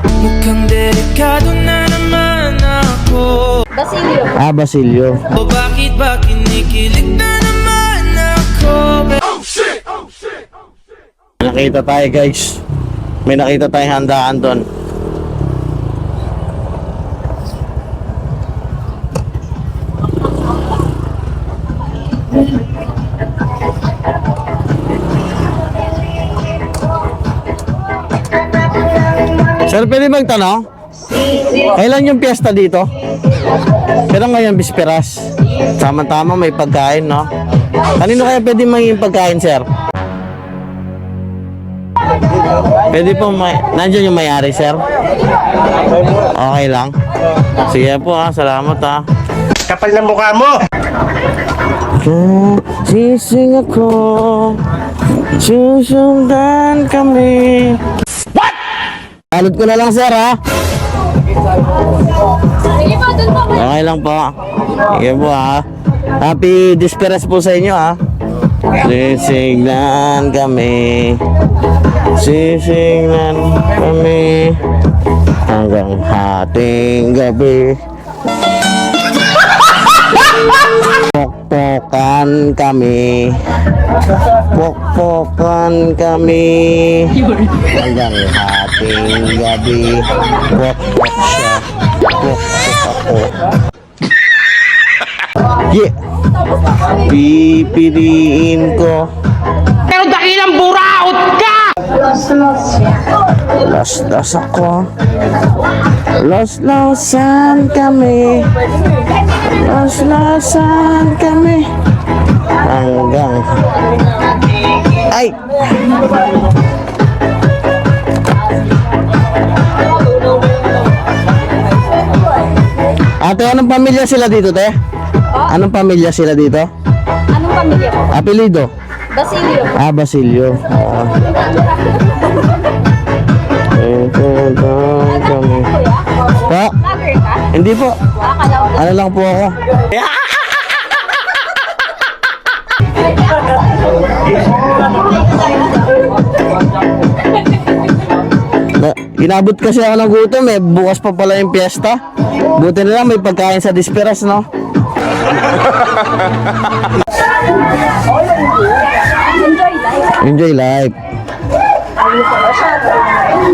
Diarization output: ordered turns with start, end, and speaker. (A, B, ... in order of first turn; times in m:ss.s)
0:00.1-0:03.7 A
0:03.7-0:04.3 B
0:04.3-0:05.3 C
0:05.3-0:09.4 A
0:11.4-0:12.6 C
0:13.2-0:14.6 C
0:29.6-0:30.6 C
0:31.4-0:32.9 C
0:34.0-0:37.3 C
0:37.9-0:39.6 C
0:42.9-0:44.8 C
0:46.2-0:46.9 C
0:47.6-0:49.0 C
0:49.6-0:50.6 D
0:52.0-0:54.6 C
0:55.2-0:57.8 C
0:59.3-1:00.4 C
1:03.2-1:05.6 C
1:06.2-1:08.0 C
1:08.7-1:11.2 C
1:12.1-1:14.6 C
1:15.4-1:17.8 C
1:20.9-1:23.4 C
1:24.5-1:33.3 C
1:35.4-1:35.9 C
1:36.9-1:39.1 C
1:39.8-1:41.8 D
1:43.5-1:44.9 C
1:46.1-1:48.5 C
1:49.4-1:51.7 C
1:52.6-1:53.6 C
1:54.9-1:56.0 C
2:03.2-2:04.7 C
2:05.4-2:06.7 C
2:07.3-2:08.1 B
2:08.1-2:08.7 C
2:09.1-2:09.7 B
2:09.7-2:11.2 C
2:13.6-2:16.8 C
2:15.7-2:16.1 B
2:16.8-2:17.4 B
2:17.4-2:18.0 C
2:18.2-2:18.7 B
2:18.6-2:19.6 C
2:28.7-2:32.0 C
2:32.5-2:34.4 C
2:39.4-2:40.0 B
2:40.1-2:40.9 C